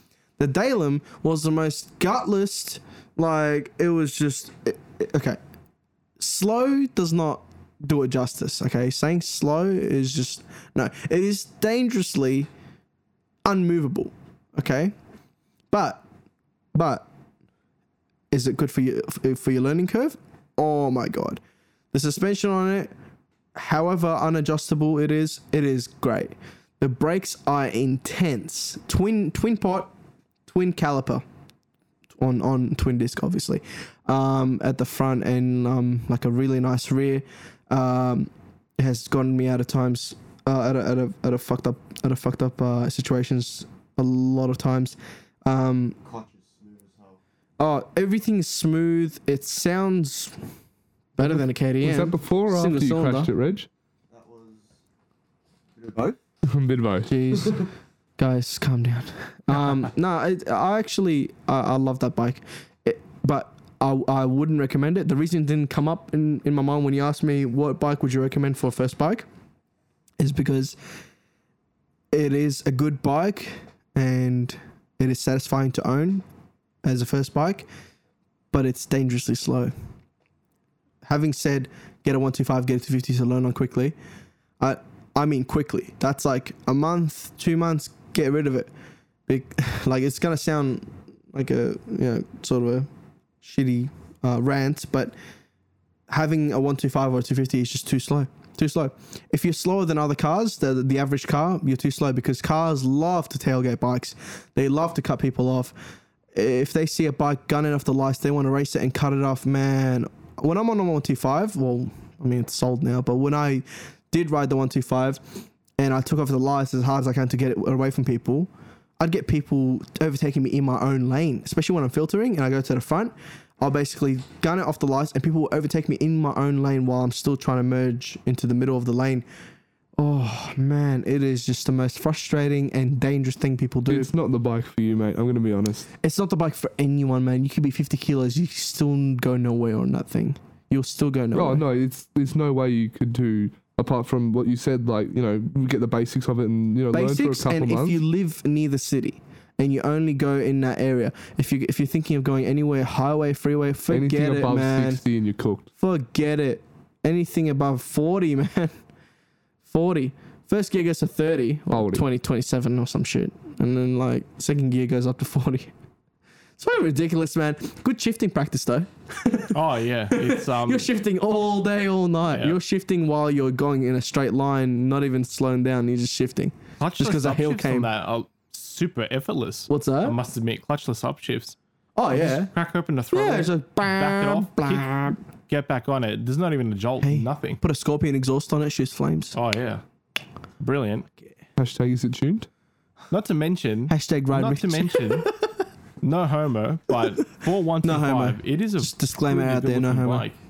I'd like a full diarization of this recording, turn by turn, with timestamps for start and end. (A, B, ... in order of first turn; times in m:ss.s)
0:00.4-0:05.4 A
0:06.2-0:12.5 A
0:13.4-0:14.9 A
0:15.7-0:16.0 A
0:16.7-0:17.1 A
0:18.3-0:21.4 A
0:21.9-0:22.9 A
0:23.6-0:29.9 A
0:30.5-0:31.2 A
0:32.2-0:46.0 A
0:46.0-0:47.2 B
0:47.6-0:50.4 A
0:51.2-0:53.3 A
0:51.2-0:53.7 C
0:54.1-0:54.8 B
0:55.8-0:56.2 B
0:56.5-0:57.1 C
0:57.1-0:57.6 A
0:58.2-1:09.3 A
1:10.2-1:10.8 A
1:12.1-1:16.2 A
1:16.8-1:17.7 A
1:18.5-1:19.7 A
1:21.0-1:24.0 A
1:24.6-1:28.7 A
1:29.3-1:32.9 A
1:33.4-1:35.2 A
1:36.1-1:45.8 A
1:46.3-2:09.3 A
2:10.0-2:14.1 A
2:13.9-2:15.9 C
2:16.0-2:21.6 A
2:21.3-2:28.0 C
2:26.9-2:35.0 A
2:33.9-2:35.7 C
2:35.8-2:38.8 A
2:39.7-2:45.7 A
2:41.7-2:42.1 C
2:46.6-2:49.6 A
2:49.5-2:50.9 D
2:50.1-2:57.9 A
2:52.3-2:52.6 D
2:56.8-3:01.6 D
2:59.7-3:00.2 A
3:02.0-3:02.5 A
3:02.1-3:07.6 D
3:03.1-3:05.2 A
3:07.0-3:09.4 A
3:09.3-3:09.8 D
3:10.6-3:11.1 D
3:11.6-3:12.5 C
3:13.1-3:15.3 D
3:13.9-3:15.4 A
3:16.0-3:20.4 D
3:17.8-3:20.3 A